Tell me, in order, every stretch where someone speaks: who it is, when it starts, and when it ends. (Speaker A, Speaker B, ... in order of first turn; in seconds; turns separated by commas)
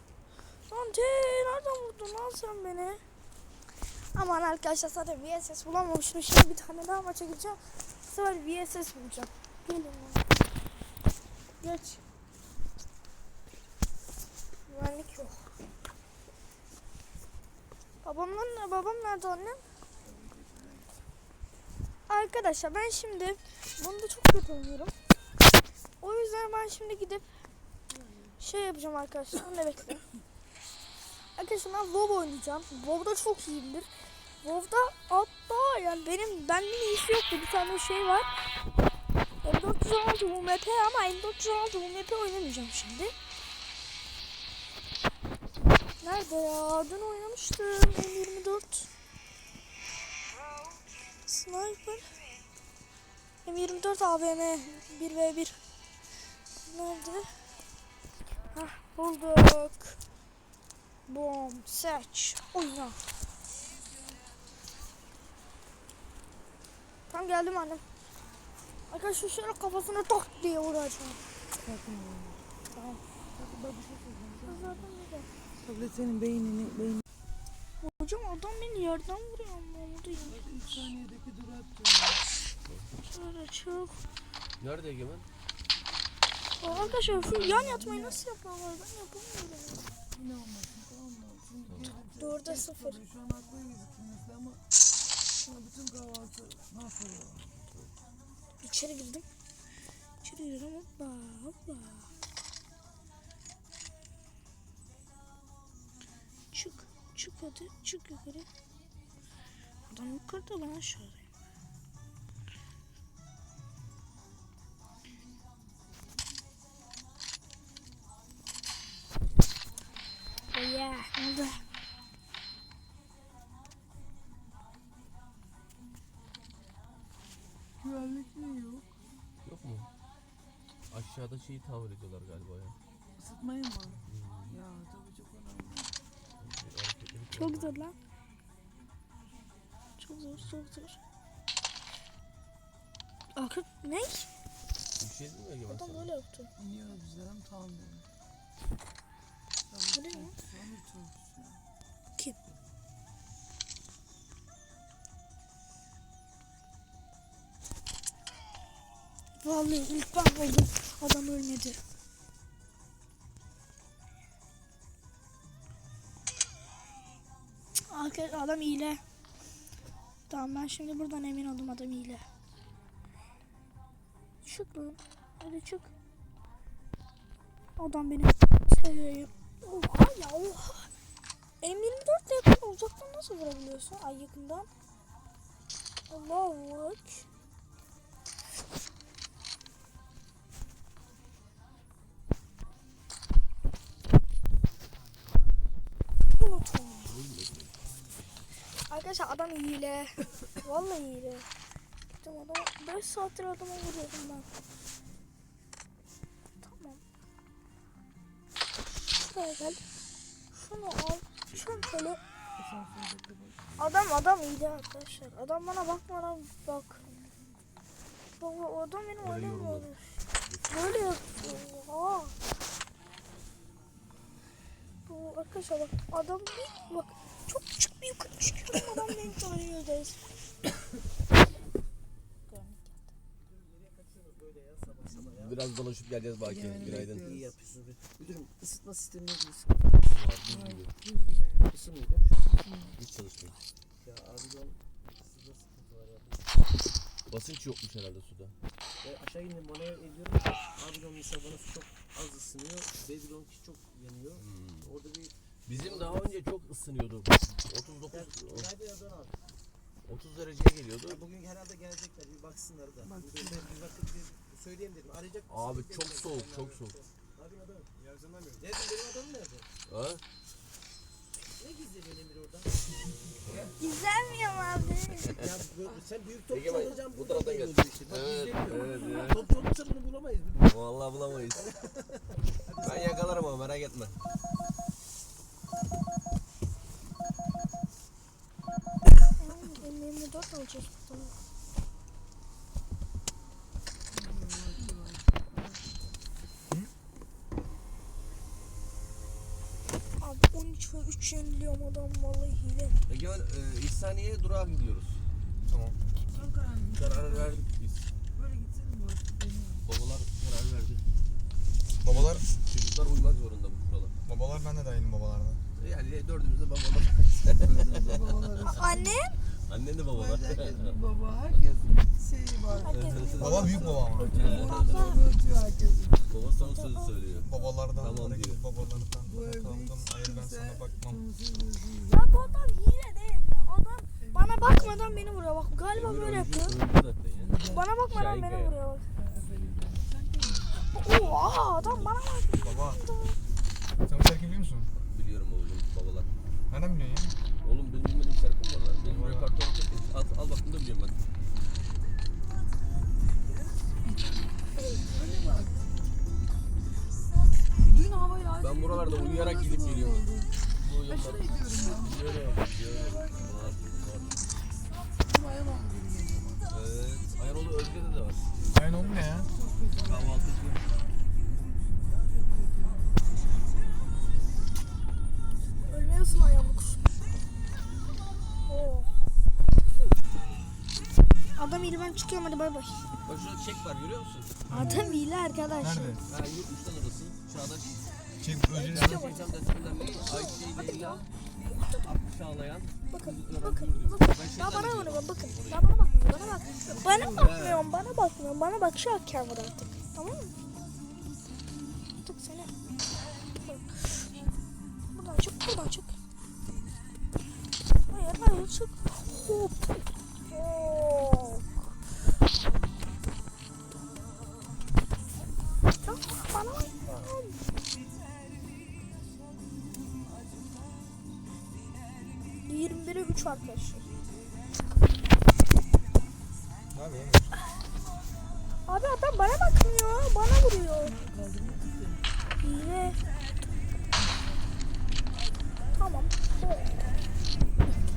Speaker A: 0.7-3.0, Speaker A: 4.1-10.2, Speaker A: 11.6-12.0, Speaker A: 14.7-15.5, Speaker A: 18.0-19.6, Speaker B: 20.0-21.0, Speaker A: 22.1-24.9, Speaker A: 26.0-27.3, Speaker B: 27.9-28.4, Speaker A: 28.4-30.0, Speaker A: 31.4-33.9, Speaker A: 34.4-38.3, Speaker A: 39.4-43.1, Speaker A: 46.0-48.9, Speaker A: 51.2-52.1, Speaker A: 53.4-55.6, Speaker A: 56.6-57.3, Speaker A: 58.5-60.0, Speaker A: 61.1-63.0, Speaker A: 67.1-67.8, Speaker A: 68.9-71.2, Speaker B: 71.6-72.4, Speaker A: 72.7-73.0, Speaker B: 73.3-74.9, Speaker A: 74.5-75.3, Speaker B: 75.6-77.0, Speaker A: 77.8-80.9, Speaker B: 80.2-82.2, Speaker A: 83.0-84.0, Speaker C: 84.6-85.2, Speaker A: 86.6-89.8, Speaker B: 86.6-88.2, Speaker B: 90.1-94.6, Speaker C: 91.7-92.0, Speaker A: 92.2-93.0, Speaker B: 95.4-97.5, Speaker A: 98.6-99.2, Speaker A: 100.2-102.1, Speaker A: 106.5-108.5, Speaker A: 109.9-111.2, Speaker A: 120.5-121.6, Speaker B: 127.8-128.9, Speaker C: 129.4-129.9, Speaker C: 130.9-132.8, Speaker B: 133.2-135.9, Speaker C: 134.1-134.5, Speaker C: 136.4-137.8, Speaker A: 137.3-137.9, Speaker A: 140.0-141.0, Speaker A: 143.3-144.3, Speaker C: 145.0-146.1, Speaker A: 145.7-146.5, Speaker B: 146.6-148.1, Speaker B: 149.7-151.6, Speaker A: 149.9-150.3, Speaker A: 159.4-161.8, Speaker A: 167.9-169.0, Speaker A: 170.3-172.2, Speaker A: 174.4-175.9, Speaker A: 177.8-180.9, Speaker A: 181.6-184.7, Speaker A: 186.1-187.2, Speaker A: 196.3-197.2, Speaker C: 197.0-197.8, Speaker A: 198.9-201.5, Speaker A: 202.1-204.5, Speaker A: 206.6-207.0, Speaker A: 208.9-209.8, Speaker A: 210.5-212.2, Speaker C: 211.5-211.9, Speaker B: 212.6-213.7, Speaker A: 213.8-217.0, Speaker A: 218.4-220.0, Speaker C: 219.2-219.9, Speaker C: 220.5-221.2, Speaker A: 220.7-222.3, Speaker A: 225.1-230.3, Speaker A: 232.5-233.0, Speaker D: 233.4-235.6, Speaker C: 235.3-237.2, Speaker B: 236.4-237.5, Speaker D: 236.8-239.8, Speaker C: 240.1-240.9, Speaker B: 240.4-241.7, Speaker D: 241.7-242.5, Speaker B: 242.6-243.0, Speaker C: 243.0-243.6, Speaker D: 244.0-246.5, Speaker C: 247.3-248.5, Speaker D: 249.0-256.3, Speaker C: 254.4-254.9, Speaker C: 255.7-258.7, Speaker D: 258.1-259.4, Speaker C: 260.1-261.2, Speaker D: 261.0-269.7, Speaker B: 263.0-263.8, Speaker C: 265.5-267.0, Speaker C: 269.9-270.2, Speaker D: 271.6-272.8, Speaker B: 273.5-273.7, Speaker A: 273.8-275.4, Speaker D: 275.4-280.8, Speaker C: 276.5-279.5, Speaker C: 280.6-281.8, Speaker D: 281.4-283.5, Speaker C: 282.8-284.2, Speaker A: 289.4-291.3, Speaker B: 294.1-295.8, Speaker A: 300.2-303.0, Speaker C: 303.1-305.2, Speaker E: 305.7-306.0, Speaker B: 306.3-307.6, Speaker C: 307.0-308.1, Speaker B: 308.3-309.8, Speaker C: 309.9-311.0, Speaker E: 312.0-312.4, Speaker C: 312.1-314.1, Speaker E: 314.2-315.6, Speaker C: 315.8-318.4, Speaker B: 317.4-319.2, Speaker A: 318.6-319.4, Speaker C: 319.7-321.0, Speaker B: 320.1-326.3, Speaker A: 322.7-323.9, Speaker C: 322.9-323.8, Speaker E: 323.4-324.4, Speaker C: 324.4-325.1, Speaker A: 324.4-325.2, Speaker C: 326.3-328.6, Speaker A: 326.6-327.4, Speaker E: 327.4-331.2, Speaker B: 329.2-332.7, Speaker A: 332.0-336.7, Speaker B: 334.2-335.3, Speaker C: 335.9-337.6, Speaker B: 337.3-337.9, Speaker A: 337.6-339.1, Speaker C: 338.1-338.8, Speaker B: 339.1-341.0, Speaker A: 340.9-343.4, Speaker C: 341.1-341.4, Speaker B: 341.8-342.1, Speaker E: 342.6-343.0, Speaker E: 344.0-344.9, Speaker C: 344.9-346.3, Speaker E: 346.7-347.4, Speaker C: 347.6-351.2, Speaker E: 349.0-349.5, Speaker B: 354.0-355.9, Speaker B: 357.8-364.3, Speaker C: 358.6-364.4, Speaker B: 365.2-366.7, Speaker C: 366.7-368.5, Speaker B: 368.5-370.6, Speaker E: 368.7-369.5, Speaker C: 370.0-370.8, Speaker B: 372.2-373.2, Speaker A: 375.9-377.1, Speaker A: 378.7-379.1, Speaker A: 381.6-383.1, Speaker C: 383.2-384.6, Speaker E: 384.7-385.2, Speaker A: 384.7-386.2, Speaker E: 385.8-386.2, Speaker C: 386.2-388.1, Speaker E: 388.4-389.3, Speaker A: 388.7-389.5, Speaker C: 388.9-391.3, Speaker A: 390.1-392.1, Speaker C: 391.9-395.9, Speaker A: 393.1-400.5, Speaker B: 396.3-397.7, Speaker C: 397.3-397.8, Speaker A: 402.2-402.7, Speaker A: 403.6-404.3, Speaker A: 405.1-406.1, Speaker A: 408.1-411.9, Speaker A: 416.0-417.6, Speaker B: 419.5-421.1, Speaker A: 422.6-424.1, Speaker E: 426.9-427.5, Speaker A: 428.9-431.1, Speaker B: 431.0-432.3, Speaker A: 432.6-433.2, Speaker A: 435.9-437.1